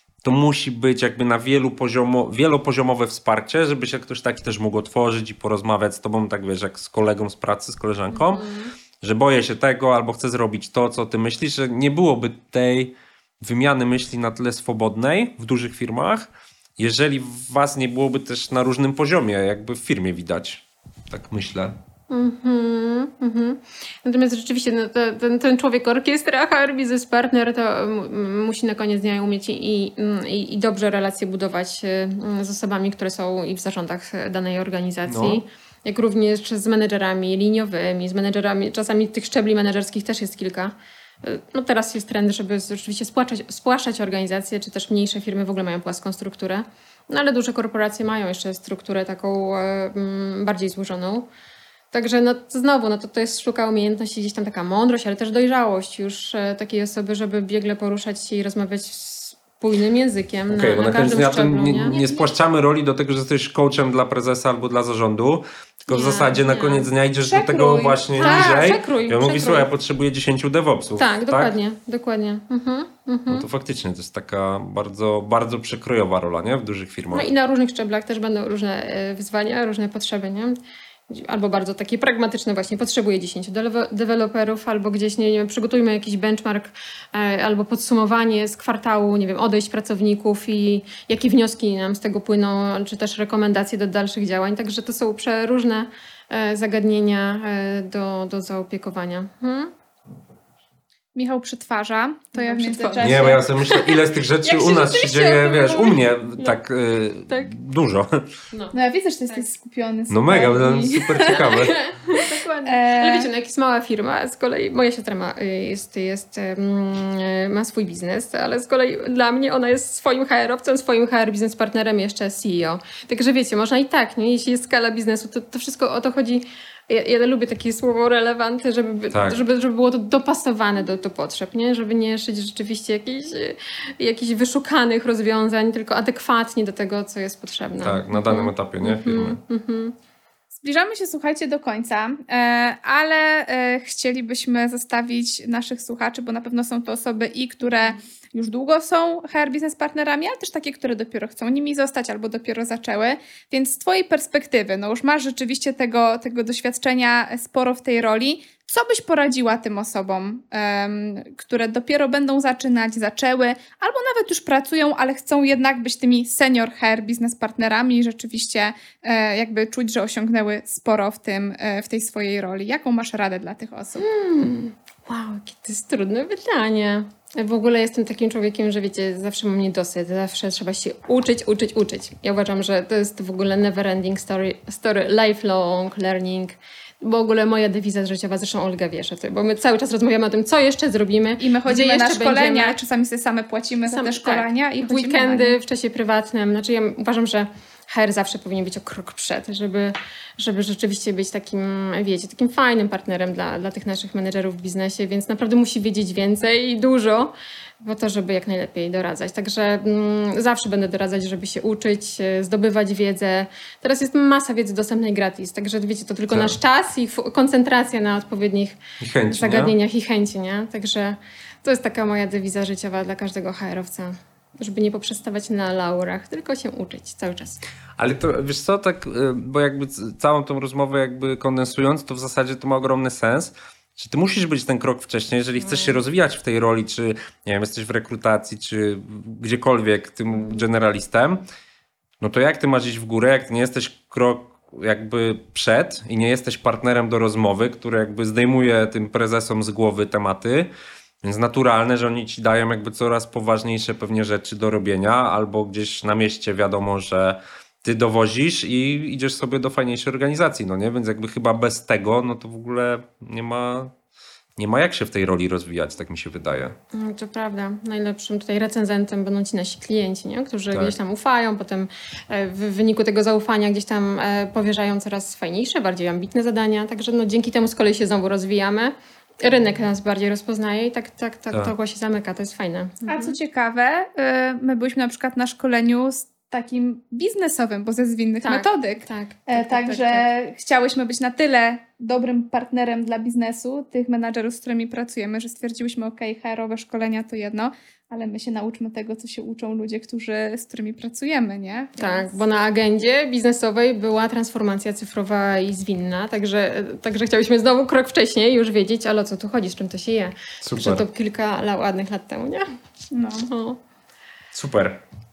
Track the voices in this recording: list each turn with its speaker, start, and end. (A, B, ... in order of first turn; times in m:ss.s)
0:00.2-0:08.5 A
0:08.1-0:08.7 B
0:09.0-0:21.8 A
0:22.1-0:51.3 B
0:35.1-0:35.4 A
0:51.9-1:02.0 B
1:00.5-1:11.5 A
1:01.8-1:02.3 C
1:05.9-1:06.9 B
1:07.2-1:08.7 C
1:08.2-1:09.7 B
1:11.0-1:13.5 B
1:13.3-1:17.3 A
1:17.1-1:20.6 B
1:21.1-1:39.7 B
1:41.2-1:43.8 C
1:42.3-1:43.5 B
1:43.0-1:48.3 A
1:44.5-1:45.6 B
1:44.6-1:45.9 C
1:47.3-1:47.6 B
1:48.5-1:48.8 B
1:48.7-1:53.3 C
1:50.1-1:51.9 A
1:51.3-2:20.0 B
2:09.1-2:09.4 A
2:17.8-2:19.4 A
2:20.6-2:54.0 C
2:54.0-3:12.8 B
3:11.4-3:15.6 C
3:13.9-3:47.6 B
3:36.3-3:36.6 A
3:39.0-3:39.8 A
3:48.0-4:01.4 A
3:55.6-3:56.0 B
4:02.2-4:10.7 A
4:11.2-4:23.9 A
4:24.6-4:26.8 A
4:26.9-4:43.4 B
4:30.7-4:31.0 A
4:43.1-5:02.4 C
4:48.4-4:50.3 B
5:02.0-5:12.7 B
5:10.6-5:11.0 A
5:13.1-5:13.5 C
5:13.5-5:13.8 B
5:14.5-5:15.0 A